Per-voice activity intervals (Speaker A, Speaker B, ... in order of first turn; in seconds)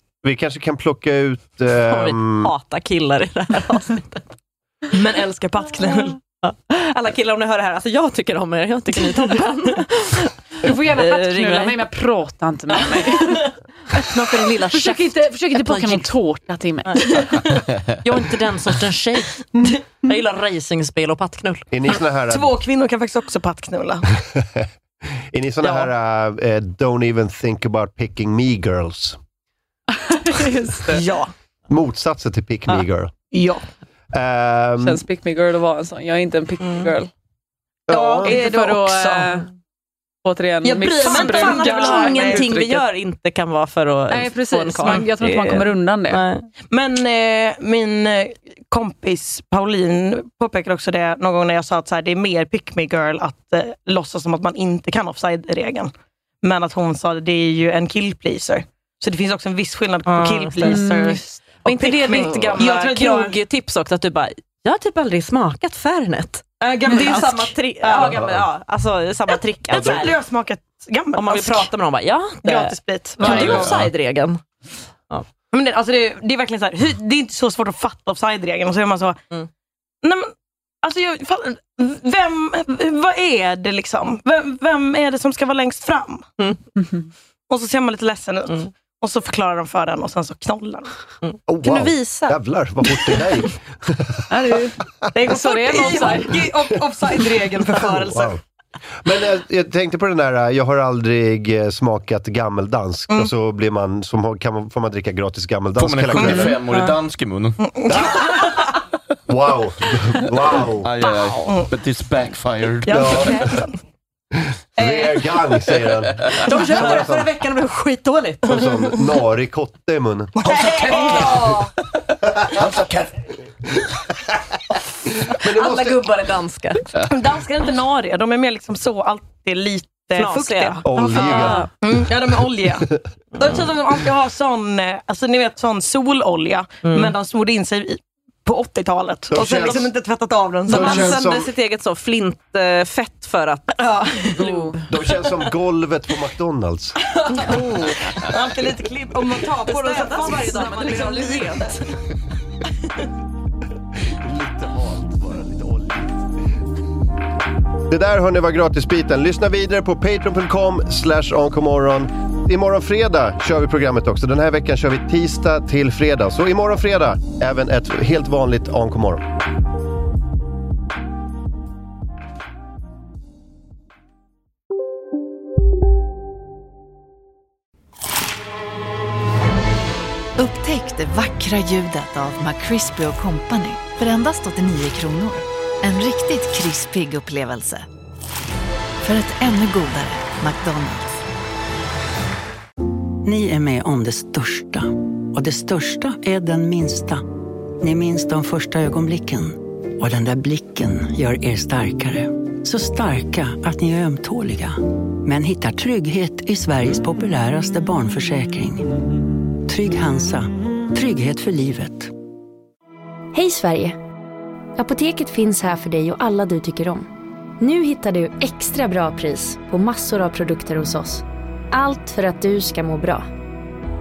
Speaker A: 0.2-2.5, 21.7-22.6, 24.3-24.7, 25.3-29.2, 31.7-33.1, 34.1-35.0, 37.9-38.4, 69.7-70.0, 91.5-94.5, 97.3-98.4, 99.0-106.6, 107.9-108.3, 109.3-110.9, 112.9-113.6, 114.8-117.3, 118.5-120.5, 125.2-126.1, 130.8-131.6, 139.3-139.9, 140.7-141.5, 144.9-147.0, 154.2-156.0, 157.9-169.3
Speaker B: 1.9-4.2, 6.4-11.8, 12.8-13.4, 14.0-16.1, 16.8-19.4, 20.0-21.7, 41.0-46.5, 60.1-60.8, 61.6-70.1, 71.2-74.5, 91.2-92.3, 116.4-118.6, 120.6-121.7, 125.4-126.9, 130.2-131.7, 136.8-137.1, 140.7-144.8, 147.3-147.9, 149.7-151.8
Speaker C: 4.9-6.2, 22.3-24.1, 25.6-25.9, 30.8-31.3, 33.3-33.6, 37.9-39.5, 40.6-42.5, 46.7-63.4, 66.6-68.3, 69.7-71.7, 72.4-73.8, 75.5-79.2, 80.0-86.3, 87.5-90.9, 95.1-98.4, 106.2-106.9, 107.6-108.6, 111.4-111.7, 112.8-113.8, 116.5-117.0, 120.4-121.7, 127.0-141.2, 147.3-151.8
Speaker D: 10.6-14.1, 14.7-17.2, 30.0-31.0, 34.8-37.1, 38.2-39.5, 40.2-42.8, 44.1-46.2, 60.6-62.7, 86.8-87.1, 94.3-96.4, 144.4-144.7
Speaker E: 73.3-73.8, 105.8-107.6, 110.7-113.3, 120.9-121.2, 122.6-122.9
Speaker F: 180.4-187.9, 189.0-191.3
Speaker G: 193.2-197.3, 197.8-208.9, 209.7-212.1
Speaker H: 213.3-214.0, 214.8-217.1, 217.6-223.3